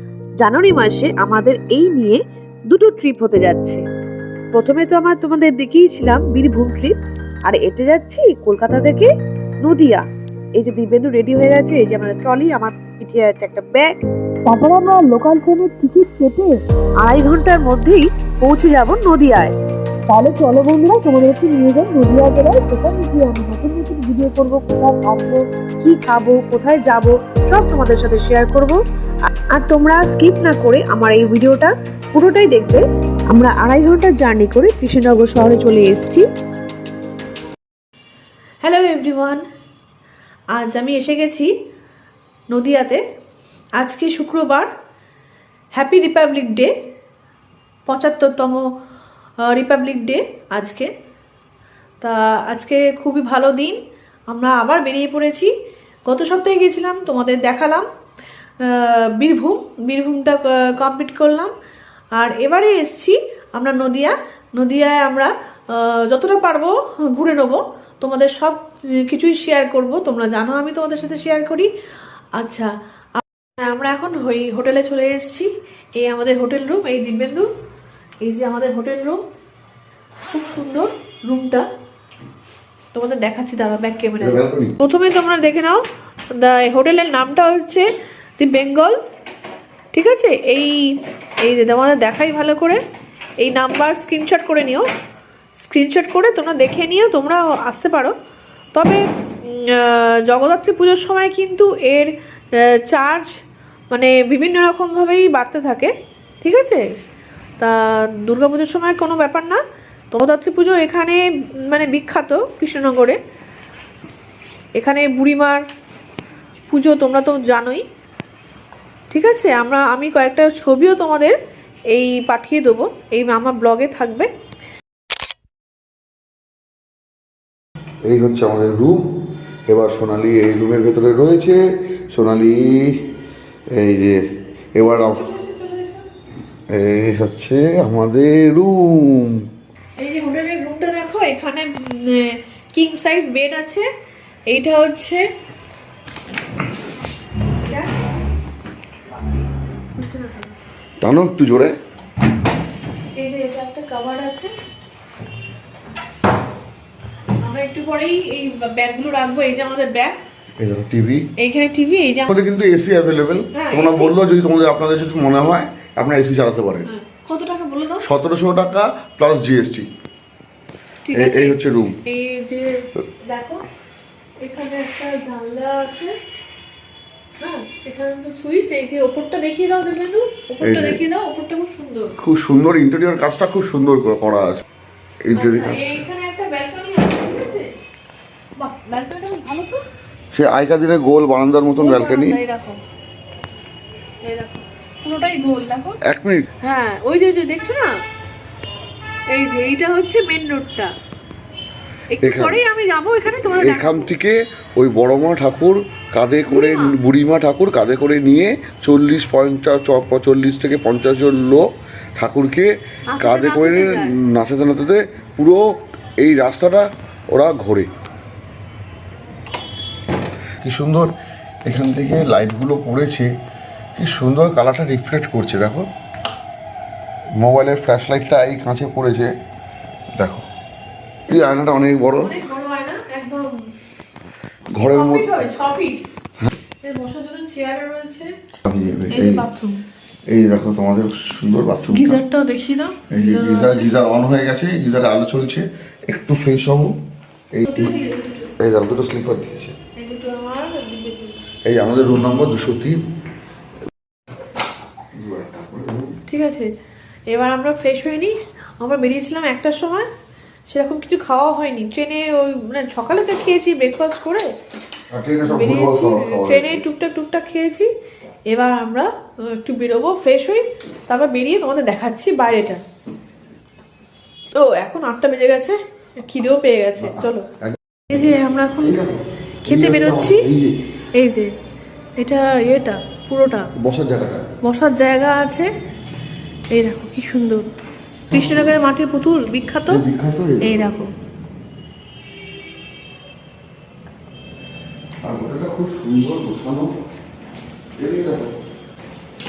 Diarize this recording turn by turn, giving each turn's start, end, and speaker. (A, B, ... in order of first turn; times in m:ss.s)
0:00.4-0:02.2 A
0:00.6-0:02.2 B
0:02.7-0:03.5 A
0:02.9-0:03.8 B
0:04.6-0:06.9 A
0:04.7-0:06.9 B
0:07.5-0:09.0 A
0:07.7-0:09.1 B
0:09.7-0:10.0 B
0:09.7-0:10.0 A
0:10.6-0:11.8 A
0:10.8-0:13.9 B
0:12.6-0:13.8 A
0:14.5-0:16.5 A
0:14.6-0:16.5 B
0:17.1-0:19.5 A
0:17.1-0:19.4 B
0:20.1-0:25.2 A
0:20.2-0:25.4 B
0:25.9-0:28.8 B
0:25.9-0:26.8 A
0:28.2-0:28.7 A
0:29.5-0:36.2 B
0:31.4-0:31.7 A
0:32.2-0:32.8 A
0:38.6-0:39.4 A
0:40.6-0:41.5 A
0:42.5-0:43.0 A
0:43.8-0:44.7 A
0:45.8-0:46.7 A
0:47.9-0:48.6 A
0:49.4-0:50.9 A
0:52.0-0:53.8 A
0:54.3-0:55.5 A
0:56.1-0:57.9 A
0:58.6-1:01.5 A
1:02.2-1:11.7 A
1:12.4-1:17.5 A
1:18.2-1:19.2 A
1:20.3-1:21.7 A
1:22.9-1:29.0 A
1:24.2-1:24.8 C
1:29.9-1:32.8 A
1:33.4-1:34.9 A
1:35.6-1:38.2 A
1:38.7-1:43.3 A
1:43.9-1:46.8 A
1:47.6-1:49.6 A
1:50.1-1:53.2 A
1:54.8-1:55.6 A
1:56.7-1:57.8 A
1:59.1-2:01.4 A
2:01.9-2:04.3 A
2:08.1-2:09.1 C
2:09.7-2:13.1 C
2:13.7-2:14.2 C
2:14.8-2:15.3 C
2:14.8-2:16.1 A
2:16.7-2:19.5 C
2:20.0-2:23.9 A
2:24.5-2:25.3 A
2:27.6-2:27.9 A
2:29.9-2:30.5 A
2:31.0-2:31.8 C
2:33.2-2:34.5 A
2:37.4-2:40.2 A
2:40.6-2:41.2 C
2:41.4-2:42.3 A
2:42.3-2:46.9 C
2:43.5-2:44.2 A
2:46.9-2:48.1 A
2:48.0-2:49.9 C
2:51.0-2:53.7 A
2:51.1-2:52.0 C
2:54.4-2:56.2 A
2:57.4-3:02.1 A
3:00.6-3:01.0 C
3:02.2-3:04.6 C
3:05.2-3:06.0 C
3:05.3-3:07.7 A
3:08.6-3:09.8 A
3:10.3-3:12.4 C
3:11.8-3:12.8 A
3:14.2-3:16.0 A
3:16.0-3:16.5 C
3:16.6-3:17.9 A
3:19.3-3:20.9 A
3:22.1-3:24.1 A
3:22.2-3:22.6 C
3:23.4-3:37.9 C
3:26.5-3:27.0 A
3:33.1-3:34.2 A
3:40.6-3:41.1 C
3:41.7-3:43.3 C
3:44.0-3:45.9 C
3:47.4-3:49.3 C
3:50.2-3:50.5 C
3:51.3-3:52.4 C
3:52.2-3:53.6 A
3:54.8-3:55.5 C
3:54.8-3:56.0 A
3:56.8-3:58.3 A
3:58.6-3:59.5 C
3:59.1-3:59.8 A
4:00.3-4:02.2 C
4:01.9-4:03.9 A
4:03.1-4:06.9 C
4:07.5-4:07.9 C
4:07.7-4:08.5 A
4:08.6-4:09.8 C
4:10.0-4:11.4 A
4:11.7-4:13.0 C
4:15.1-4:16.2 C
4:16.3-4:16.7 A
4:17.3-4:20.1 A
4:20.7-4:24.5 A
4:25.1-4:26.9 C
4:25.5-4:27.9 A
4:28.5-4:32.8 A
4:34.5-4:37.5 A
4:37.0-4:38.0 C
4:38.1-4:39.0 A
4:38.8-4:40.8 C
4:39.6-4:40.5 A
4:41.2-4:41.5 A
4:42.2-4:43.7 A
4:43.8-4:44.4 C
4:44.6-4:45.7 A
4:46.7-4:47.7 A
4:48.3-4:50.0 A
4:48.3-4:48.8 C
4:49.9-4:50.9 C
4:50.6-4:51.1 A
4:55.2-4:57.0 C
4:58.0-4:58.6 C